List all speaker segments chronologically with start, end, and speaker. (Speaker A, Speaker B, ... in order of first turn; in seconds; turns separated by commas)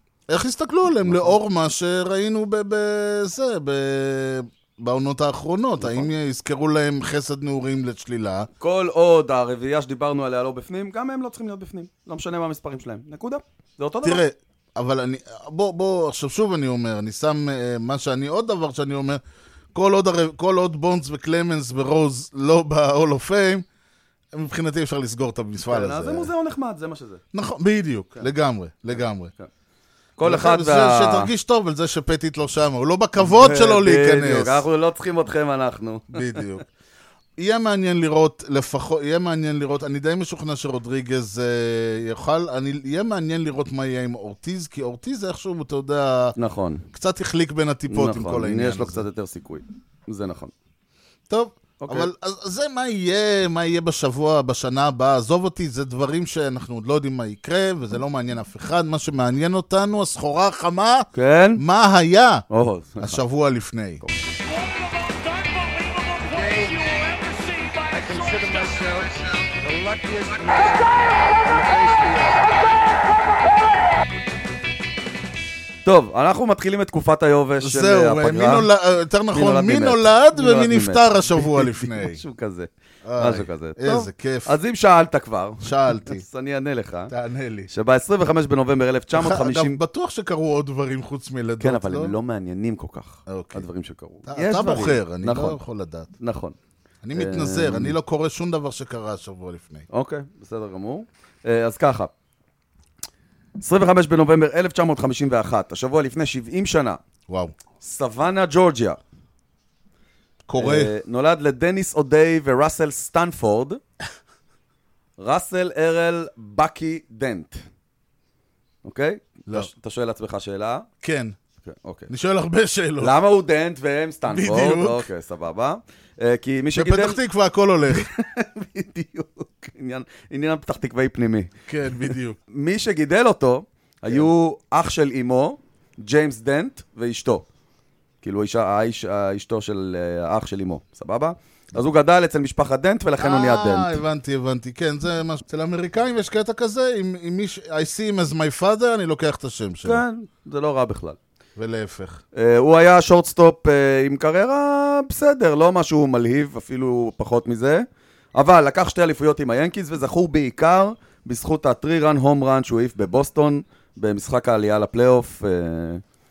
Speaker A: 0.3-8.5, Speaker B: 1.0-1.4, Speaker B: 5.8-6.1, Speaker B: 8.6-14.2, Speaker A: 14.0-19.2, Speaker A: 19.7-23.6, Speaker A: 24.3-26.3, Speaker B: 25.6-27.2, Speaker A: 27.3-29.3, Speaker B: 30.2-31.3, Speaker A: 30.2-34.6, Speaker B: 33.2-36.6, Speaker A: 36.1-36.6, Speaker A: 37.4-46.4, Speaker B: 46.4-46.9, Speaker A: 46.9-49.0, Speaker B: 47.9-50.5, Speaker A: 51.3-62.4, Speaker B: 51.8-52.1, Speaker B: 61.1-61.6, Speaker B: 62.5-63.2, Speaker A: 63.0-64.0, Speaker C: 64.4-72.9, Speaker B: 75.8-78.7, Speaker A: 77.6-82.2, Speaker B: 79.3-87.1, Speaker A: 83.0-84.5, Speaker A: 85.6-86.2, Speaker A: 87.1-87.7, Speaker B: 87.7-89.8, Speaker A: 89.1-92.1, Speaker B: 91.6-95.6, Speaker A: 93.3-93.6, Speaker A: 94.3-96.1, Speaker B: 96.2-96.5, Speaker A: 97.0-99.8, Speaker B: 97.1-98.0, Speaker B: 99.9-102.1, Speaker B: 103.6-107.0, Speaker A: 107.3-107.5, Speaker B: 107.8-109.0, Speaker A: 110.5-110.9, Speaker B: 110.6-113.8, Speaker B: 115.2-117.6, Speaker B: 118.8-120.9, Speaker A: 121.0-121.3, Speaker B: 121.6-122.1, Speaker A: 122.1-123.1, Speaker B: 123.0-127.2, Speaker A: 124.3-125.1, Speaker A: 126.7-128.1, Speaker B: 127.9-137.4, Speaker A: 131.7-132.4, Speaker B: 138.2-144.0, Speaker A: 143.2-150.0, Speaker B: 149.8-151.2, Speaker A: 151.6-152.2, Speaker B: 152.3-166.0